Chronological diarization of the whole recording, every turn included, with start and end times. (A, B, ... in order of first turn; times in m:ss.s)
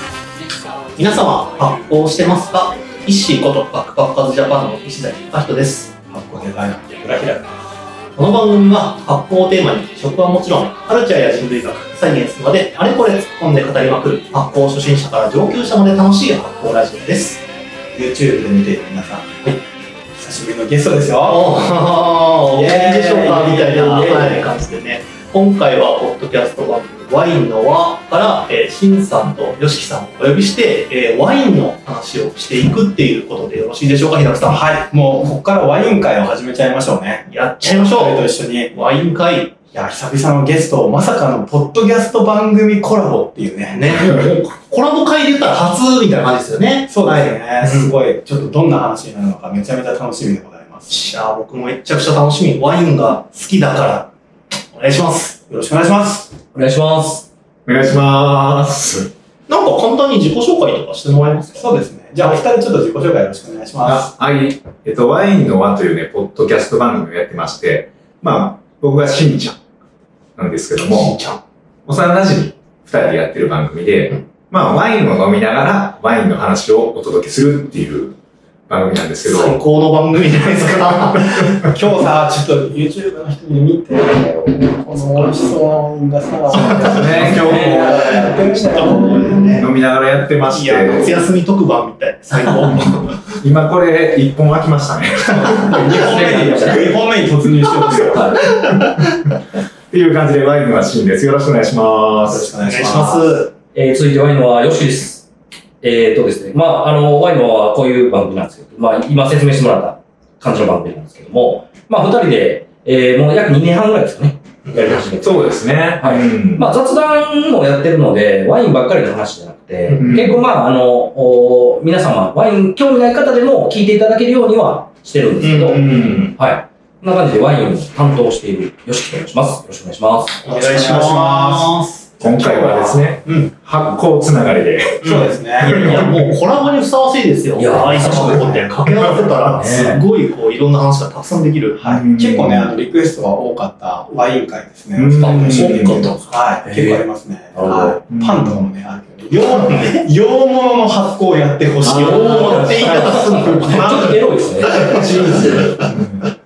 0:01.0-0:05.9 A
0:06.1-0:07.6 B
0:08.2-0:17.4 A
0:17.9-0:19.6 B
0:20.2-0:21.5 B
0:21.2-0:34.7 A
0:22.5-0:24.4 B
0:34.4-0:38.7 B
0:37.3-0:39.6 A
0:39.7-0:44.0 B
0:43.7-0:47.9 A
0:46.9-0:50.9 B
0:50.9-0:54.1 A
0:54.7-0:55.4 A
0:55.5-0:56.4 B
0:56.5-0:57.2 C
0:57.6-0:59.1 D
0:59.5-1:01.7 A
1:01.5-1:04.1 B
1:03.8-1:09.6 D
1:10.4-1:11.2 D
1:10.8-1:11.4 A
1:11.8-1:18.2 D
1:18.7-1:19.6 D
1:19.2-1:21.6 A
1:21.6-1:29.5 B
1:26.5-1:28.3 D
1:26.5-1:29.7 A
1:27.4-1:27.8 C
1:29.5-1:31.2 D
1:30.5-1:33.2 A
1:33.4-1:37.0 D
1:35.3-1:35.9 A
1:35.5-1:38.6 B
1:36.3-1:36.8 C
1:38.1-1:38.4 C
1:38.4-1:39.0 A
1:39.9-1:42.6 D
1:42.2-1:43.3 B
1:42.6-1:43.5 A
1:43.7-1:45.2 C
1:45.8-2:10.4 C
1:54.6-1:55.1 A
1:55.2-1:56.7 D
1:59.9-2:00.2 A
2:00.0-2:00.4 D
2:05.4-2:06.4 A
2:05.7-2:06.3 D
2:10.4-2:12.1 A
2:10.4-2:13.2 B
2:12.2-2:15.1 D
2:13.2-2:13.5 A
2:15.0-2:21.8 A
2:15.0-2:16.1 B
2:15.6-2:16.1 D
2:17.6-2:18.6 C
2:18.0-2:18.7 B
2:19.4-2:20.0 C
2:21.8-2:33.1 B
2:21.8-2:22.8 D
2:24.9-2:26.1 D
2:25.2-2:26.2 A
2:26.6-2:28.0 C
2:28.1-2:28.6 D
2:29.5-2:30.0 A
2:31.8-2:36.0 A
2:31.8-2:35.8 C
2:33.6-2:33.9 D
2:33.7-2:34.0 B
2:34.8-2:36.2 D
2:35.0-2:35.4 B